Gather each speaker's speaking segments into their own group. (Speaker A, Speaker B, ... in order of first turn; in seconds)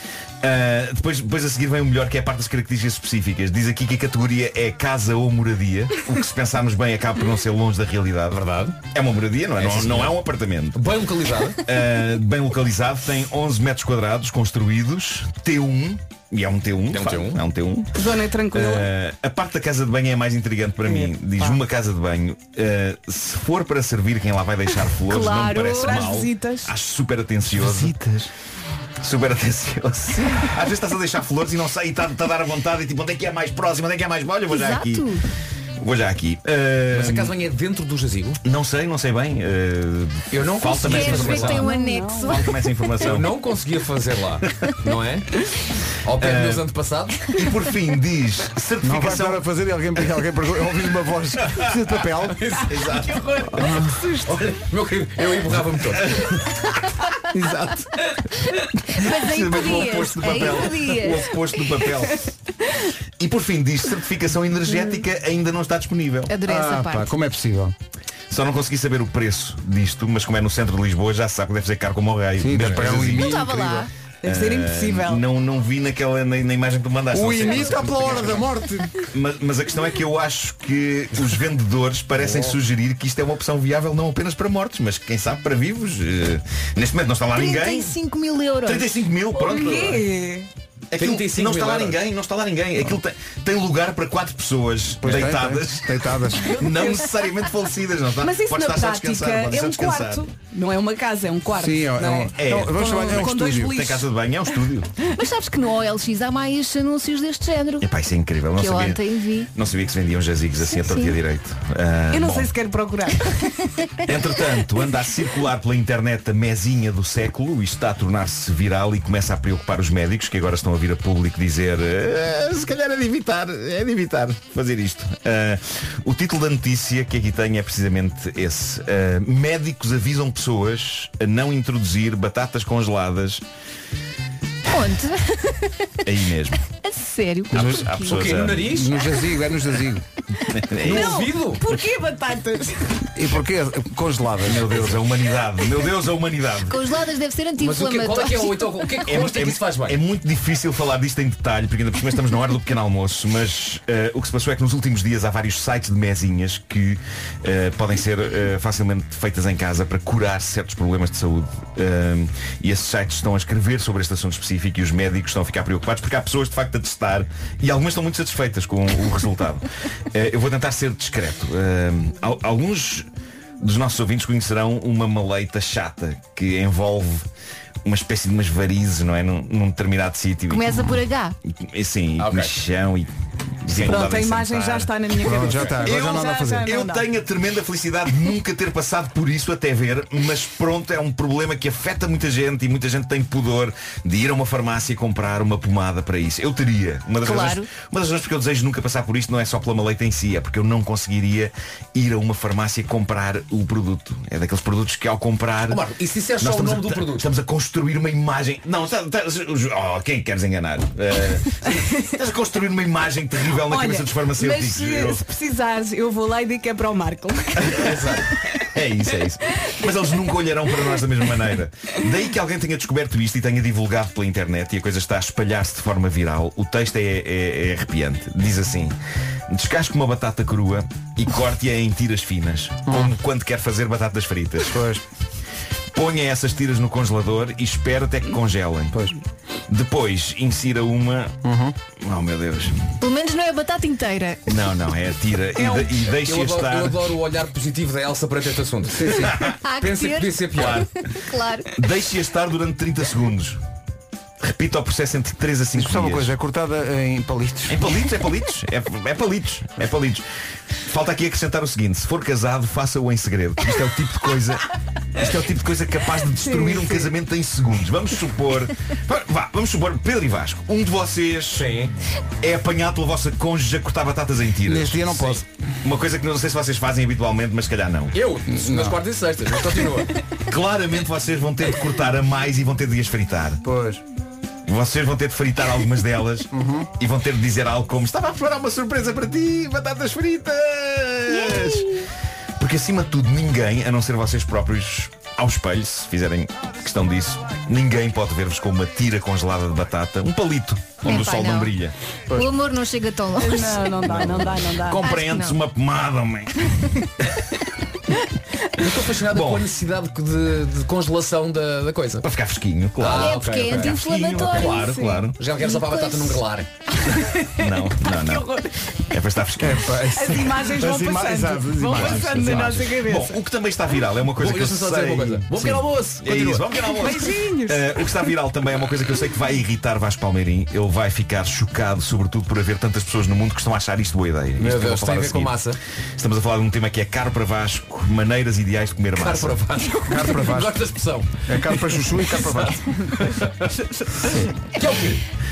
Speaker A: 0.4-10.9, 11.6-27.9, 29.0-35.1, 35.8-37.3, 38.4-43.4, 46.1-46.7, 47.3-49.4, 52.7-53.3, 56.0-56.4, 59.0-62.3, 63.2-66.4, 68.3-73.5, 74.2-78.5, 79.1-87.9, 88.6-90.0, 90.9-100.3, 102.3-104.9, 107.8-109.0, 109.5-112.5, 114.0-133.4, 136.1-136.7, 137.5-138.9, 140.5-141.2, 144.4-146.8, 149.1-173.1, 173.6-177.2, 177.8-181.0, 181.6-183.1, 183.6-205.8, 206.4-215.2, 217.6-228.9, 229.5-234.8, 235.9-239.0, 239.7-241.3, 242.0-242.9, 244.5-247.1, 249.3-249.6, 250.5-251.0, 251.7-253.6, 254.4-256.3, 257.7-260.2, 260.8-271.7, 272.4-278.2, 280.5-283.6, 284.6-291.9, 292.6-302.4, 304.0-306.9, 309.3-309.7, 312.2-315.4, 317.6-318.5, 319.1-320.0, 321.9-339.6, 344.8-345.2
Speaker B: 8.3-8.8, 9.6-10.2, 10.7-11.6, 16.9-17.4, 36.9-38.4, 40.3-41.7, 43.0-45.4, 46.0-47.3, 52.3-56.4, 90.9-92.0, 138.0-138.9, 140.8-141.6, 147.6-150.0, 182.2-182.5, 205.7-207.3, 217.8-218.2, 245.6-250.8, 271.5-271.9, 278.1-280.1, 308.8-312.2, 313.0-314.6, 315.4-316.7, 324.4-326.8, 334.6-335.8, 339.1-343.5, 344.8-345.2
Speaker C: 17.9-18.9, 21.0-21.5, 25.7-26.7, 41.4-42.4, 53.9-54.3, 60.3-61.1, 74.2-75.2, 89.4-90.5, 98.2-104.0, 112.1-113.7, 140.8-143.1, 183.8-187.0, 213.7-217.8, 303.4-305.0, 314.6-315.2, 317.1-318.7, 320.1-323.4, 327.0-327.9
Speaker D: 25.1-26.0, 34.5-35.2, 40.8-42.6, 58.9-61.3, 66.3-67.1, 73.0-73.9, 87.3-88.9, 105.1-107.9, 108.5-109.5, 110.6-111.2, 134.7-136.1, 136.7-138.3, 146.6-149.0, 180.5-181.3, 197.2-197.7, 243.0-244.5, 249.6-251.7, 291.3-292.0, 301.0-301.7, 302.3-303.9, 304.9-305.6, 313.1-316.4
Speaker E: 27.5-28.3, 48.8-52.5, 53.5-54.0, 57.3-57.8, 66.4-67.7, 72.4-73.9, 77.1-79.0, 95.0-96.6, 101.5-103.8, 137.5-137.9, 138.6-140.1, 143.1-145.1, 185.2-186.7, 232.9-233.1, 234.6-235.0, 241.4-241.8, 248.9-249.3, 255.7-257.9, 274.6-275.4, 278.5-279.0, 283.6-284.0, 286.5-286.9, 319.6-322.9, 340.1-340.8, 341.4-343.0